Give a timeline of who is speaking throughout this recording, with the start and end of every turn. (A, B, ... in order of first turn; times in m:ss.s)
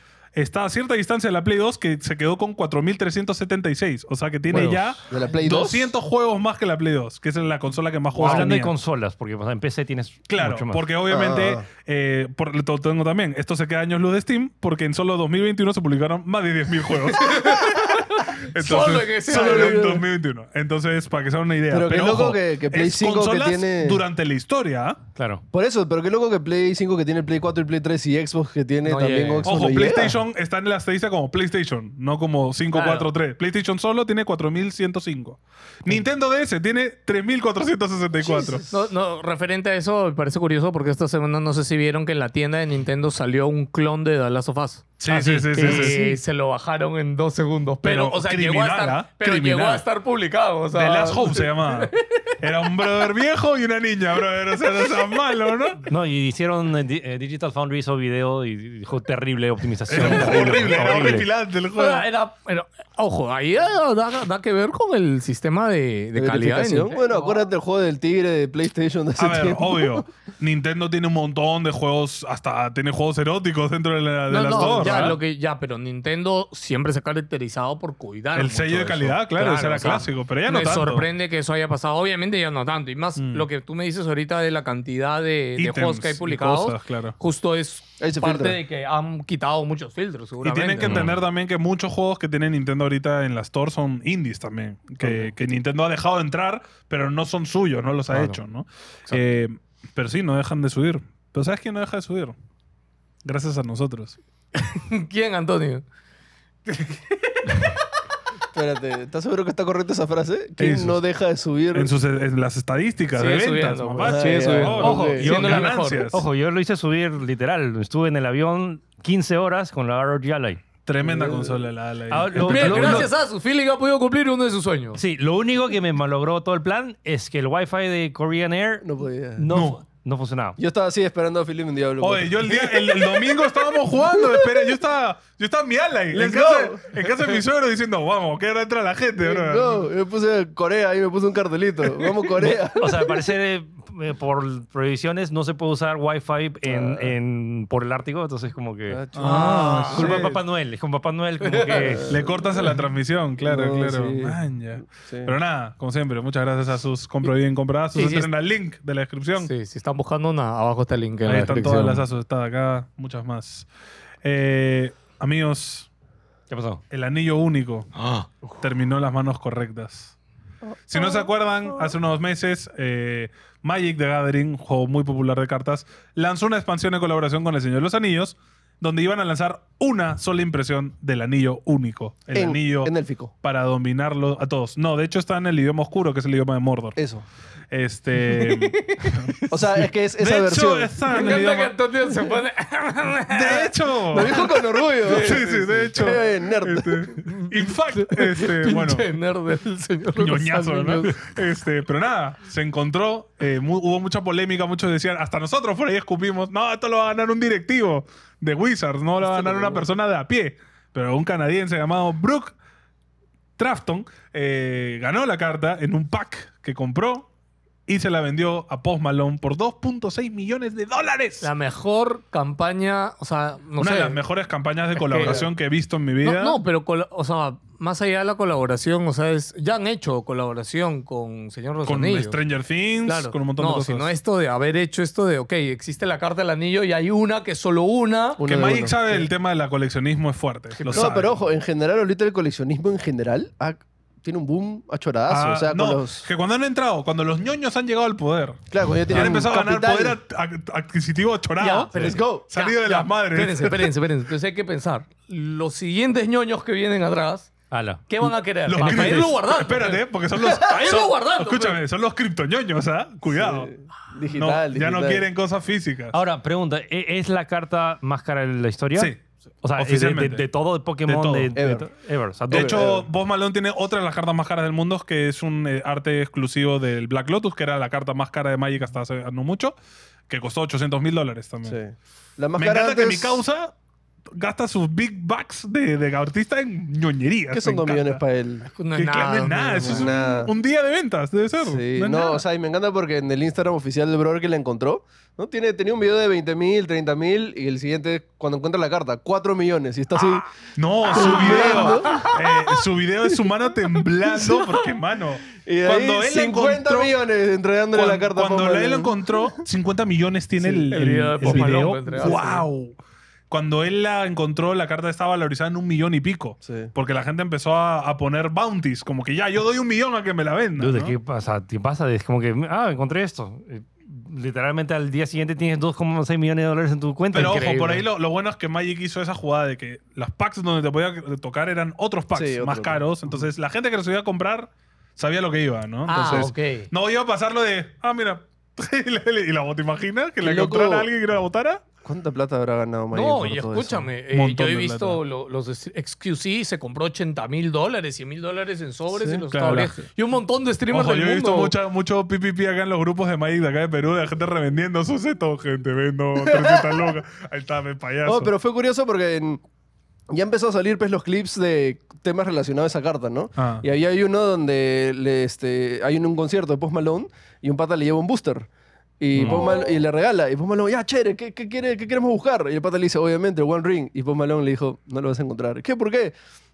0:00.4-0:08.7 A
0:04.5-0:04.8 B
0:05.1-0:05.9 C
0:08.2-0:10.8 B
0:10.3-0:25.0 A
0:11.1-0:11.7 C
0:17.1-0:20.0 D
0:19.3-0:20.0 C
0:21.7-0:24.0 C
0:25.2-0:25.4 B
0:25.5-0:30.2 C
0:28.8-0:29.5 D
0:29.4-0:38.6 A
0:32.7-0:33.1 D
0:38.2-0:38.7 C
0:38.7-0:52.0 D
0:45.0-0:46.1 A
0:45.8-0:46.1 C
0:47.8-0:49.8 A
0:50.7-0:55.8 A
0:55.9-1:01.3 B
0:59.9-1:02.1 A
1:00.0-1:07.4 D
1:06.2-1:10.0 C
1:09.2-1:15.2 A
1:14.3-1:31.1 D
1:14.5-1:15.1 C
1:18.4-1:21.1 A
1:23.2-1:23.5 A
1:25.6-1:27.2 A
1:28.0-1:28.6 C
1:30.4-1:42.4 A
1:30.8-1:31.2 B
1:38.1-1:38.4 B
1:43.2-1:44.2 A
1:44.6-1:45.8 D
1:46.7-1:47.8 D
1:48.5-1:51.9 C
1:50.6-1:51.0 A
1:51.7-1:56.2 A
1:53.1-1:56.1 D
1:54.0-1:55.3 C
1:54.9-2:00.6 B
2:00.8-2:03.1 A
2:01.0-2:01.6 C
2:02.1-2:03.1 B
2:02.4-2:05.0 D
2:05.0-2:08.9 B
2:08.8-2:09.5 C
2:09.4-2:10.6 B
2:09.5-2:09.8 A
2:10.6-2:14.7 C
2:12.0-2:19.8 A
2:16.1-2:17.1 C
2:19.2-2:23.1 C
2:22.4-2:32.1 B
2:26.6-2:27.2 C
2:28.9-2:30.4 C
2:29.1-2:30.3 A
2:29.2-2:30.2 D
2:31.4-2:32.0 D
2:31.7-2:32.7 C
2:32.1-2:39.5 A
2:33.4-2:35.3 C
2:37.9-2:38.3 D
2:39.4-2:42.0 D
2:41.2-2:43.7 A
2:44.2-2:45.9 A
2:46.5-2:46.8 B
2:46.9-2:47.9 A
2:48.0-2:48.3 B
2:48.6-2:50.2 A
2:50.7-2:51.9 C
2:50.9-3:07.0 A
3:02.3-3:03.3 C
3:07.0-3:07.2 C
3:07.7-3:09.3 A
3:08.2-3:09.6 D
3:09.5-3:11.0 C
3:10.2-3:11.7 A
3:11.1-3:16.2 D
3:13.3-3:19.1 A
3:14.1-3:17.1 C
3:17.3-3:21.4 D
3:20.2-3:32.6 A
3:29.3-3:29.8 D
3:33.6-3:37.3 A
3:37.9-3:41.5 A
3:41.4-3:44.2 D
3:43.8-3:46.6 A
3:45.0-3:45.5 D
3:45.2-3:45.5 C
3:46.2-3:52.4 D
3:51.8-3:54.1 A
3:53.1-3:58.4 D
3:58.4-3:59.3 C
3:58.4-4:01.4 A
4:00.9-4:01.2 D
4:00.9-4:06.3 C
4:05.3-4:13.9 A
4:08.7-4:10.2 C
4:11.6-4:17.5 D
4:11.9-4:12.5 C
4:17.7-4:18.1 B
4:18.1-4:21.8 D
4:18.6-4:23.7 A
4:18.8-4:19.3 B
4:23.3-4:25.2 C
4:24.3-4:26.2 A
4:26.1-4:32.9 B
4:29.0-4:29.2 A
4:29.8-4:30.5 A
4:31.1-4:31.5 A
4:31.6-4:31.9 C
4:32.5-4:33.1 C
4:32.5-4:39.7 A
4:40.3-4:41.8 A
4:41.7-4:43.4 C
4:42.6-4:43.7 A
4:44.3-4:48.2 A
4:47.5-4:48.7 C
4:48.7-4:50.1 D
4:48.9-4:52.4 A
4:49.8-4:50.5 C
4:51.6-5:00.5 C
5:00.8-5:07.1 A
5:01.1-5:02.3 C
5:01.1-5:02.4 D
5:05.6-5:09.3 C
5:07.9-5:13.0 A
5:10.9-5:12.7 D
5:11.4-5:12.4 C
5:13.5-5:21.2 A
5:16.6-5:16.9 C
5:20.8-5:27.7 B
5:27.3-5:28.1 D
5:27.3-5:41.8 A
5:32.3-5:33.4 C
5:36.1-5:36.9 D
5:40.4-5:41.1 C
5:42.0-5:44.1 C
5:43.1-5:51.7 D
5:44.3-5:45.2 A
5:49.1-5:49.4 C
5:49.5-5:50.0 A
5:50.9-5:58.5 A
5:56.4-5:57.2 C
5:58.2-5:59.6 C
6:00.3-6:08.7 C
6:03.6-6:03.8 A
6:09.2-6:16.4 C
6:09.3-6:09.7 B